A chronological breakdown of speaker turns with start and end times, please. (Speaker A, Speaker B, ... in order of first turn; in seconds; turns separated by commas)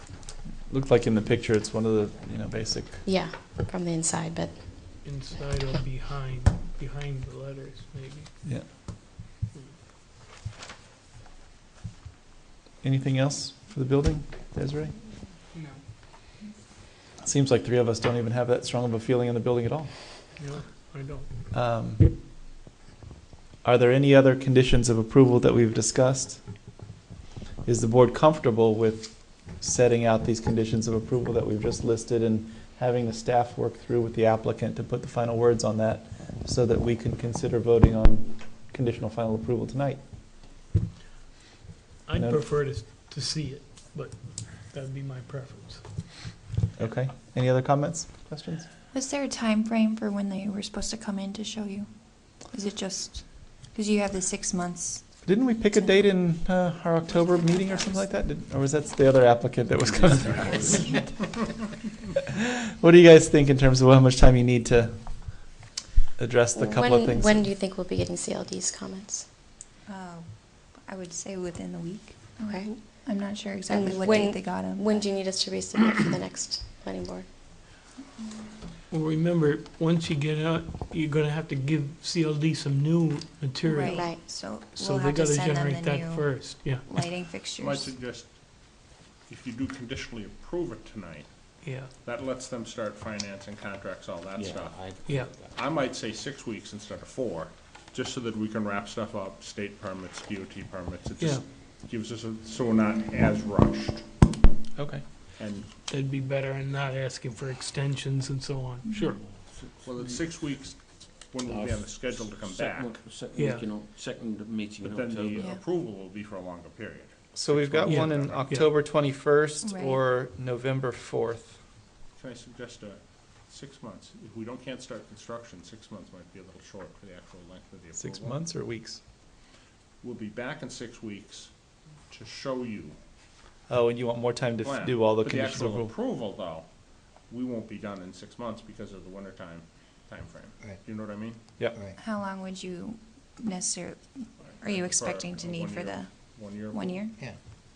Speaker A: 0.7-3.0, Speaker B: 3.0-4.8, Speaker C: 5.0-8.3, Speaker A: 12.8-14.9, Speaker A: 17.2-19.9, Speaker C: 20.4-21.5, Speaker A: 21.5-22.2, Speaker A: 23.6-26.7, Speaker A: 27.6-40.0, Speaker C: 42.1-45.8, Speaker A: 42.1-42.4, Speaker A: 46.8-48.7, Speaker D: 48.9-56.0, Speaker A: 55.2-61.1, Speaker D: 57.3-58.0, Speaker E: 59.8-60.8, Speaker D: 60.3-61.0, Speaker A: 62.4-65.4, Speaker A: 66.2-67.5, Speaker B: 66.5-69.2, Speaker D: 69.8-75.2, Speaker B: 72.5-72.8, Speaker B: 73.7-77.3, Speaker C: 78.9-87.1, Speaker D: 83.6-87.9, Speaker B: 83.8-84.4, Speaker F: 87.6-88.3, Speaker F: 89.3-91.3, Speaker C: 91.6-91.9, Speaker F: 92.0-94.8, Speaker E: 94.3-95.8, Speaker C: 95.1-95.3, Speaker F: 95.5-104.1, Speaker C: 101.2-101.4, Speaker A: 104.8-105.0, Speaker F: 105.4-105.7, Speaker C: 105.9-109.2, Speaker E: 109.2-110.3, Speaker F: 109.8-113.0, Speaker E: 111.5-115.6, Speaker C: 113.3-113.7, Speaker F: 114.8-118.7, Speaker A: 117.3-121.6, Speaker C: 117.8-118.7, Speaker D: 119.6-120.0, Speaker F: 122.2-128.4, Speaker A: 128.0-129.0, Speaker F: 130.0-131.5, Speaker F: 132.1-132.9, Speaker A: 133.7-135.9, Speaker F: 134.6-136.7, Speaker F: 137.3-141.4, Speaker D: 142.0-147.2, Speaker F: 144.4-147.0